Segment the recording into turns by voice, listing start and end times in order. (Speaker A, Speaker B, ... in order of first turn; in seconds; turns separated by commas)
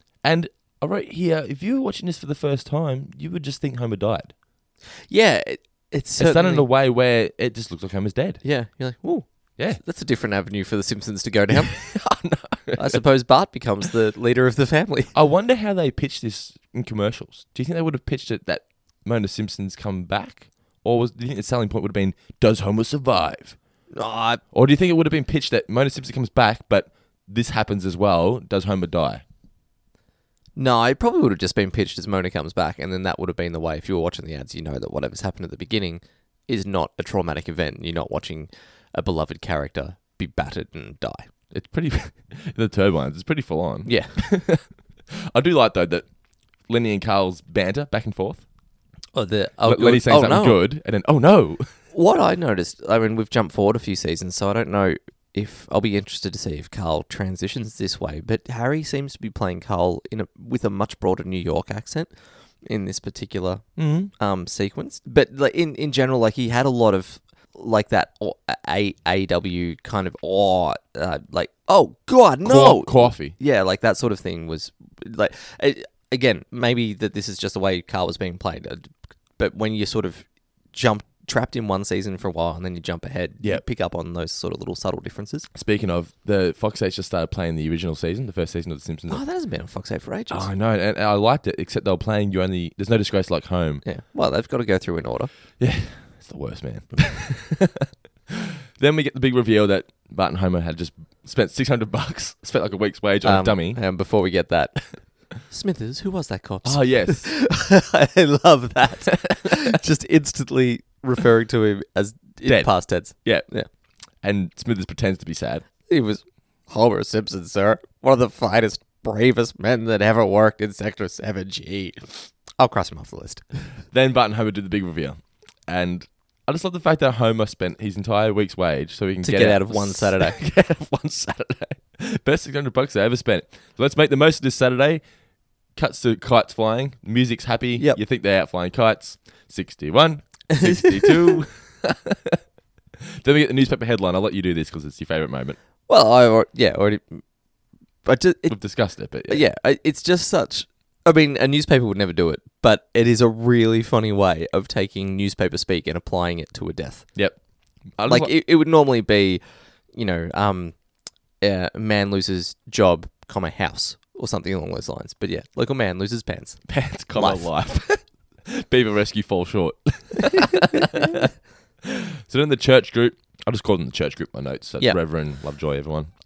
Speaker A: 0.2-4.3, Speaker B: 5.1-6.7, Speaker A: 6.2-8.4, Speaker B: 8.4-11.9, Speaker A: 11.5-13.0, Speaker B: 12.8-15.1, Speaker A: 15.1-23.6, Speaker B: 23.9-24.4, Speaker A: 24.5-29.2, Speaker B: 30.6-41.3, Speaker A: 41.5-44.7, Speaker B: 43.9-44.1, Speaker A: 45.3-46.1, Speaker A: 46.7-48.4, Speaker B: 49.1-50.6, Speaker A: 49.6-51.7, Speaker B: 51.9-85.5, Speaker A: 63.8-64.1, Speaker A: 72.4-73.4, Speaker A: 85.5-89.2, Speaker B: 89.1-90.5, Speaker A: 90.3-93.8, Speaker B: 93.8-95.3, Speaker A: 95.6-97.9, Speaker A: 98.8-103.8, Speaker B: 103.2-113.7, Speaker A: 106.6-107.3, Speaker A: 109.2-109.7, Speaker A: 112.5-113.5, Speaker A: 114.2-115.7, Speaker B: 115.9-123.5, Speaker A: 123.9-135.0, Speaker B: 129.2-130.4, Speaker A: 135.8-142.4, Speaker B: 140.5-141.4, Speaker A: 143.2-145.6, Speaker B: 145.9-147.2, Speaker B: 148.0-157.2, Speaker A: 148.5-149.4, Speaker A: 157.9-158.3, Speaker B: 158.1-159.4, Speaker B: 159.9-160.8, Speaker B: 161.4-167.5, Speaker A: 166.7-171.3, Speaker B: 170.3-171.2, Speaker A: 171.8-176.1